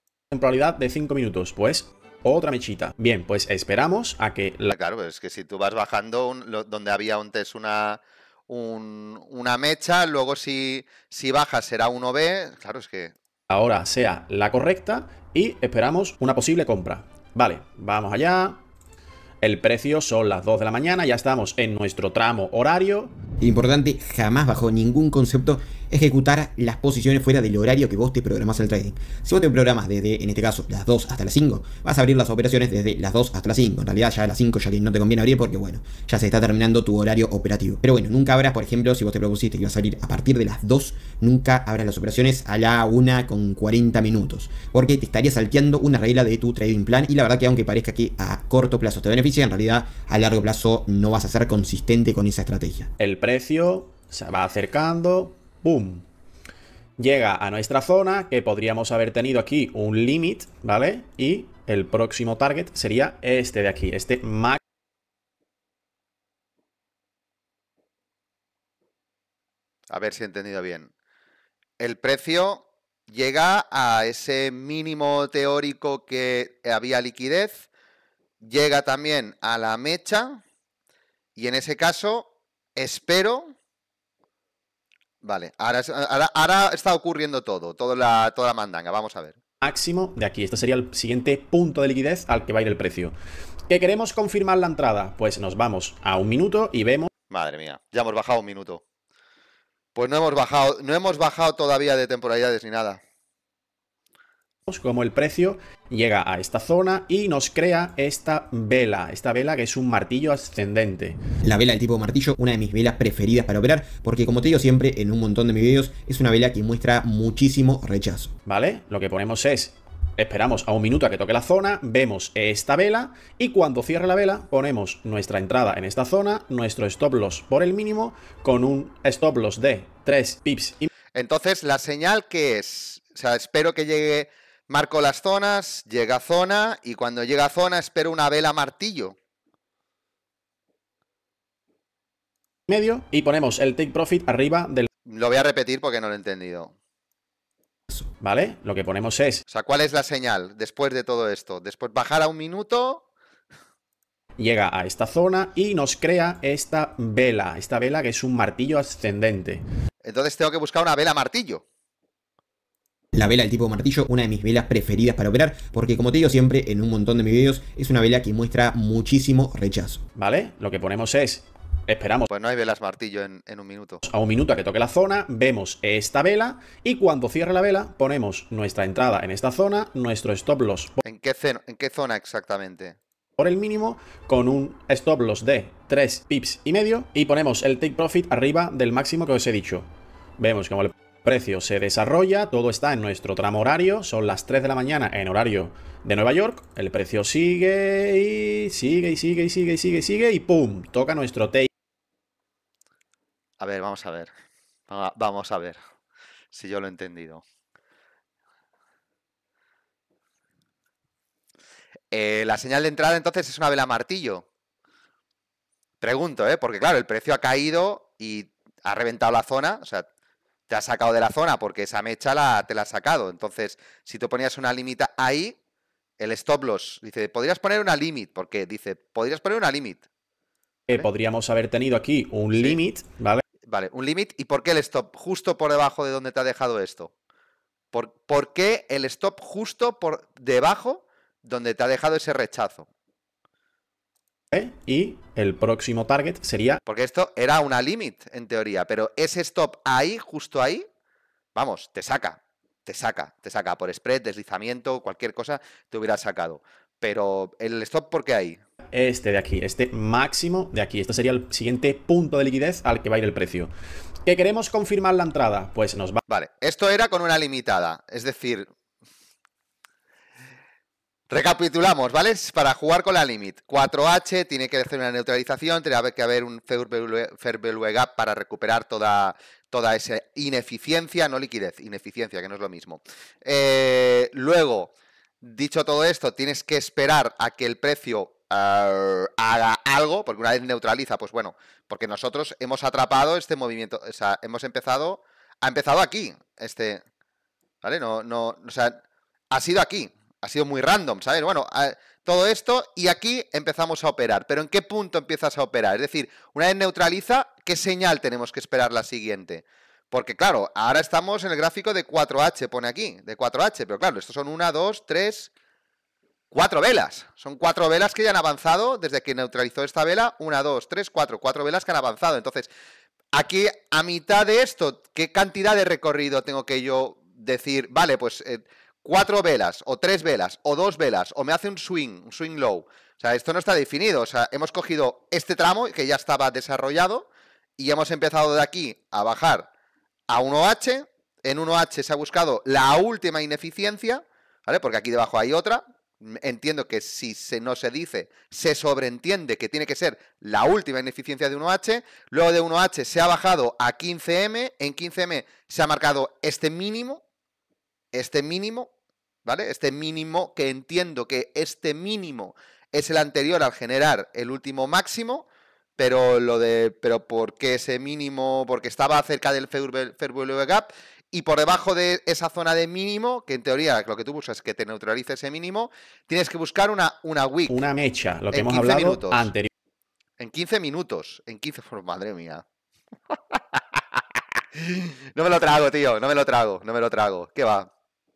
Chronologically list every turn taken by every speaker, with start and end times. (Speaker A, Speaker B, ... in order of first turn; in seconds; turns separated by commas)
Speaker A: 0.3-4.7, Speaker B: 4.7-13.1, Speaker A: 13.5-18.6, Speaker A: 19.4-23.1, Speaker C: 23.4-52.9, Speaker A: 53.0-56.0, Speaker A: 57.0-64.6, Speaker B: 69.9-70.9, Speaker B: 71.8-77.7, Speaker B: 78.4-80.4, Speaker B: 81.3-83.5, Speaker B: 85.2-89.3, Speaker A: 89.6-93.1, Speaker A: 93.7-97.1, Speaker B: 97.3-98.8, Speaker B: 99.9-103.0, Speaker A: 104.7-111.2, Speaker C: 111.4-118.3, Speaker A: 118.5-130.9, Speaker B: 131.1-139.2, Speaker A: 142.7-144.9, Speaker B: 145.1-146.7, Speaker A: 148.2-149.4, Speaker B: 149.5-153.0, Speaker A: 154.4-159.6, Speaker B: 160.0-161.6, Speaker C: 163.1-170.0, Speaker A: 170.2-172.3, Speaker B: 172.3-174.0, Speaker A: 174.0-181.0, Speaker B: 181.0-183.0, Speaker A: 183.4-189.9, Speaker A: 190.4-201.7, Speaker B: 203.6-204.3, Speaker B: 204.9-205.8, Speaker B: 206.5-207.4, Speaker B: 212.1-214.4, Speaker B: 216.0-220.1, Speaker B: 220.7-225.5, Speaker B: 226.2-230.0, Speaker A: 230.9-233.4, Speaker B: 233.7-237.1, Speaker B: 237.9-242.9, Speaker A: 244.5-246.8, Speaker B: 246.8-250.8, Speaker B: 251.5-258.6, Speaker A: 258.9-263.7, Speaker A: 264.2-266.2, Speaker B: 266.3-268.7, Speaker B: 271.3-297.0, Speaker B: 297.8-299.0, Speaker B: 299.5-315.5, Speaker B: 316.5-322.7, Speaker B: 323.3-337.3, Speaker B: 337.8-339.7, Speaker B: 340.3-357.2, Speaker B: 358.1-358.9, Speaker B: 359.4-365.4, Speaker B: 366.0-377.8, Speaker A: 377.7-379.7, Speaker B: 378.5-379.5, Speaker B: 380.4-382.6, Speaker B: 383.3-384.2, Speaker B: 384.7-387.9